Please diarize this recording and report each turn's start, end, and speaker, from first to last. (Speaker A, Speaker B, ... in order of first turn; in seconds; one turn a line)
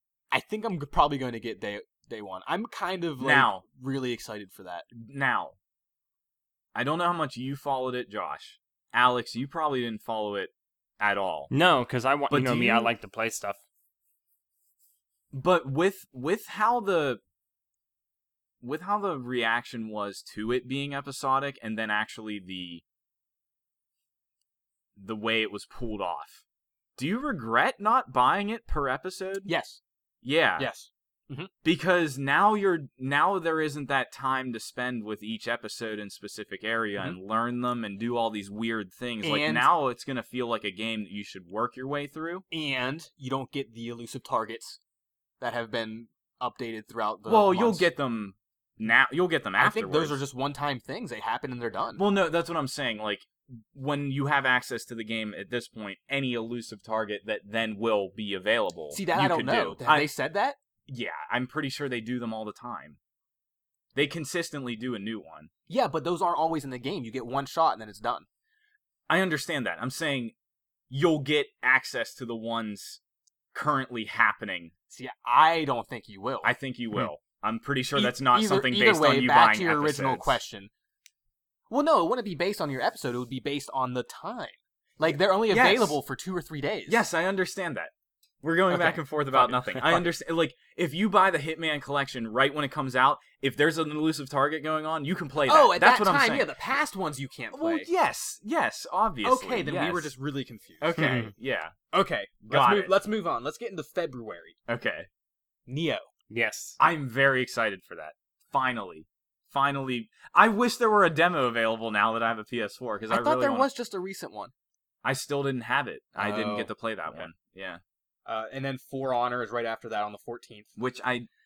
Speaker A: 0.3-4.9
Speaker B: 3.2-3.6
Speaker B: 4.9-5.6
Speaker B: 6.8-11.5
Speaker C: 11.5-13.6
Speaker B: 12.3-12.9
Speaker B: 15.3-17.2
Speaker B: 18.6-22.8
Speaker B: 25.0-26.4
Speaker B: 27.0-29.5
Speaker A: 29.5-29.8
Speaker B: 30.2-30.7
Speaker A: 30.6-31.5
Speaker B: 31.6-42.5
Speaker A: 39.2-39.7
Speaker A: 42.5-44.8
Speaker A: 45.4-47.9
Speaker B: 47.3-50.2
Speaker A: 49.6-52.0
Speaker B: 52.0-60.1
Speaker A: 58.9-60.6
Speaker B: 60.9-63.0
Speaker B: 64.0-65.5
Speaker A: 65.7-68.3
Speaker B: 69.1-70.3
Speaker B: 70.9-73.0
Speaker B: 73.5-74.7
Speaker A: 74.9-76.5
Speaker B: 76.4-80.4
Speaker A: 78.0-80.7
Speaker A: 81.7-87.0
Speaker B: 85.5-86.0
Speaker B: 86.9-87.9
Speaker B: 88.4-96.5
Speaker A: 88.7-90.1
Speaker A: 95.5-97.9
Speaker B: 97.5-100.1
Speaker A: 99.2-101.2
Speaker B: 100.8-101.8
Speaker C: 101.0-101.3
Speaker A: 101.9-104.6
Speaker B: 102.4-102.9
Speaker B: 104.7-105.1
Speaker A: 105.7-106.1
Speaker C: 106.3-106.8
Speaker B: 106.8-113.7
Speaker A: 113.1-114.5
Speaker B: 115.0-117.8
Speaker A: 116.2-117.3
Speaker A: 118.3-120.7
Speaker B: 120.8-121.3